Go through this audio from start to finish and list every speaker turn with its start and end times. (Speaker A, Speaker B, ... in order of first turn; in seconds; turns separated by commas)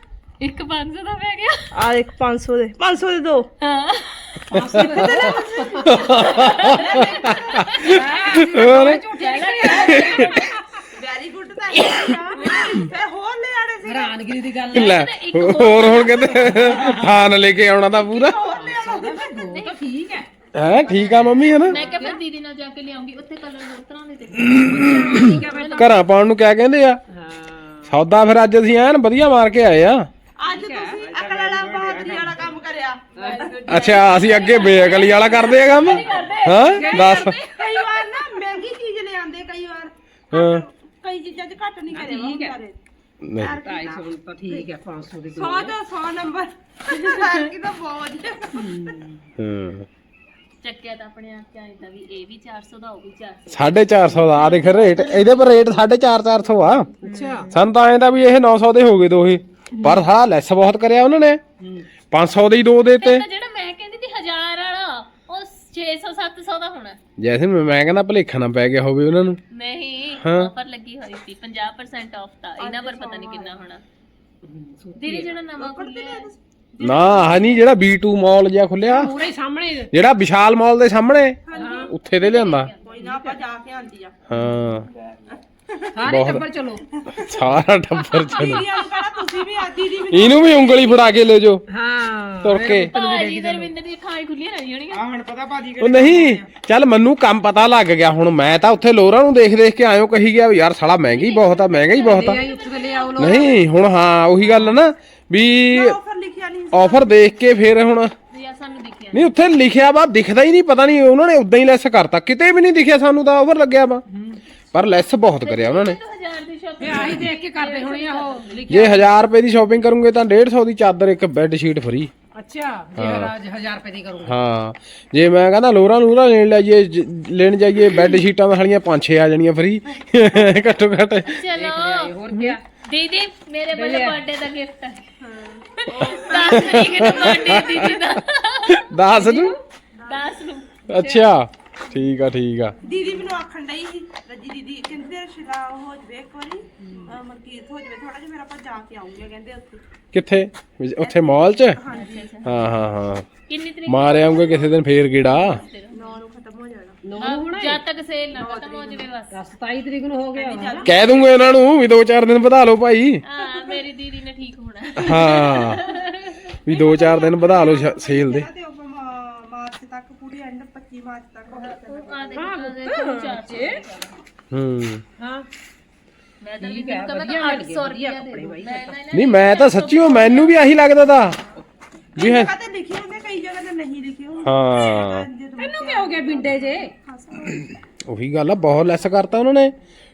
Speaker A: 0.4-1.7, Speaker B: 1.7-3.5, Speaker A: 3.6-4.6, Speaker C: 4.5-6.2, Speaker B: 4.6-7.9, Speaker D: 5.9-9.0, Speaker A: 6.1-8.0, Speaker C: 7.7-10.6, Speaker A: 9.1-10.6, Speaker D: 9.8-10.2, Speaker B: 10.9-14.4, Speaker C: 12.3-12.9, Speaker C: 13.8-15.1, Speaker A: 14.7-16.7, Speaker D: 14.7-18.4, Speaker B: 17.9-19.6, Speaker C: 18.5-20.3, Speaker D: 20.5-21.8, Speaker C: 20.9-22.2, Speaker A: 21.7-25.9, Speaker D: 24.4-27.0, Speaker C: 24.7-26.0, Speaker C: 27.1-27.9, Speaker D: 27.9-30.1, Speaker B: 30.4-33.9, Speaker C: 30.4-31.0, Speaker E: 31.0-32.5, Speaker C: 33.1-33.6, Speaker A: 33.2-37.3, Speaker D: 33.7-37.4, Speaker C: 36.2-38.3, Speaker B: 37.0-42.8, Speaker D: 40.3-40.6, Speaker C: 41.9-42.6, Speaker D: 43.2-43.6, Speaker B: 43.4-44.7, Speaker C: 43.6-45.8, Speaker B: 45.3-49.0, Speaker A: 46.9-47.4, Speaker C: 48.5-49.2, Speaker D: 49.4-49.9, Speaker A: 50.6-55.5, Speaker D: 53.5-56.9, Speaker C: 57.0-57.5, Speaker A: 57.0-57.3, Speaker D: 57.5-61.4, Speaker C: 61.6-61.9, Speaker D: 62.1-63.3, Speaker A: 62.9-67.0, Speaker D: 67.2-69.4, Speaker A: 69.5-73.8, Speaker D: 70.2-70.5, Speaker B: 72.6-73.6, Speaker C: 74.4-75.4, Speaker A: 75.0-76.3, Speaker B: 75.6-77.6, Speaker D: 76.8-79.2, Speaker A: 76.9-77.1, Speaker C: 78.9-79.9, Speaker D: 79.9-82.7, Speaker B: 81.5-82.0, Speaker A: 81.5-83.3, Speaker C: 81.5-81.9, Speaker B: 82.8-84.2, Speaker D: 84.3-84.9, Speaker B: 85.3-86.3, Speaker C: 85.9-86.8, Speaker D: 86.0-86.5, Speaker B: 86.9-91.2, Speaker D: 87.1-88.7, Speaker C: 88.4-89.4, Speaker D: 90.1-91.6, Speaker C: 91.7-93.7, Speaker D: 92.4-92.9, Speaker A: 92.7-95.1, Speaker E: 94.9-96.4, Speaker B: 95.6-96.2, Speaker D: 95.8-102.4, Speaker A: 101.1-103.6, Speaker C: 101.9-103.5, Speaker D: 103.2-106.0, Speaker B: 105.7-107.2, Speaker D: 106.7-108.1, Speaker A: 108.3-109.4, Speaker D: 109.1-114.0, Speaker C: 114.1-114.4, Speaker D: 114.7-116.0, Speaker A: 115.4-118.7, Speaker C: 116.8-119.1, Speaker D: 118.7-122.1, Speaker C: 122.3-124.4, Speaker D: 123.0-123.3, Speaker D: 124.2-131.4, Speaker A: 131.2-135.1, Speaker C: 131.5-132.6, Speaker C: 133.7-134.2, Speaker B: 135.2-137.9, Speaker A: 135.7-139.3, Speaker D: 136.4-138.0, Speaker D: 138.7-139.6, Speaker C: 139.1-139.5, Speaker B: 140.0-140.3, Speaker A: 140.1-141.1, Speaker D: 140.9-142.8, Speaker B: 142.8-149.9, Speaker C: 146.8-147.1, Speaker D: 150.1-151.8, Speaker B: 151.0-152.3, Speaker A: 151.9-152.6, Speaker D: 152.4-153.3, Speaker A: 153.5-156.2, Speaker D: 153.9-155.6, Speaker B: 155.9-157.0, Speaker C: 157.0-157.8, Speaker A: 157.2-159.4, Speaker B: 158.3-159.1, Speaker C: 159.3-160.9, Speaker B: 160.3-161.1, Speaker D: 160.8-163.2, Speaker A: 163.2-167.5, Speaker D: 165.0-165.8, Speaker D: 166.7-168.5, Speaker B: 167.1-172.4, Speaker A: 171.5-174.2, Speaker C: 172.3-173.8, Speaker D: 174.5-175.0, Speaker C: 175.2-175.5, Speaker A: 176.4-180.6, Speaker C: 176.6-179.0, Speaker D: 179.1-181.4, Speaker D: 182.2-182.5, Speaker B: 182.2-187.8, Speaker D: 184.4-185.3, Speaker C: 185.6-186.9, Speaker D: 188.1-189.8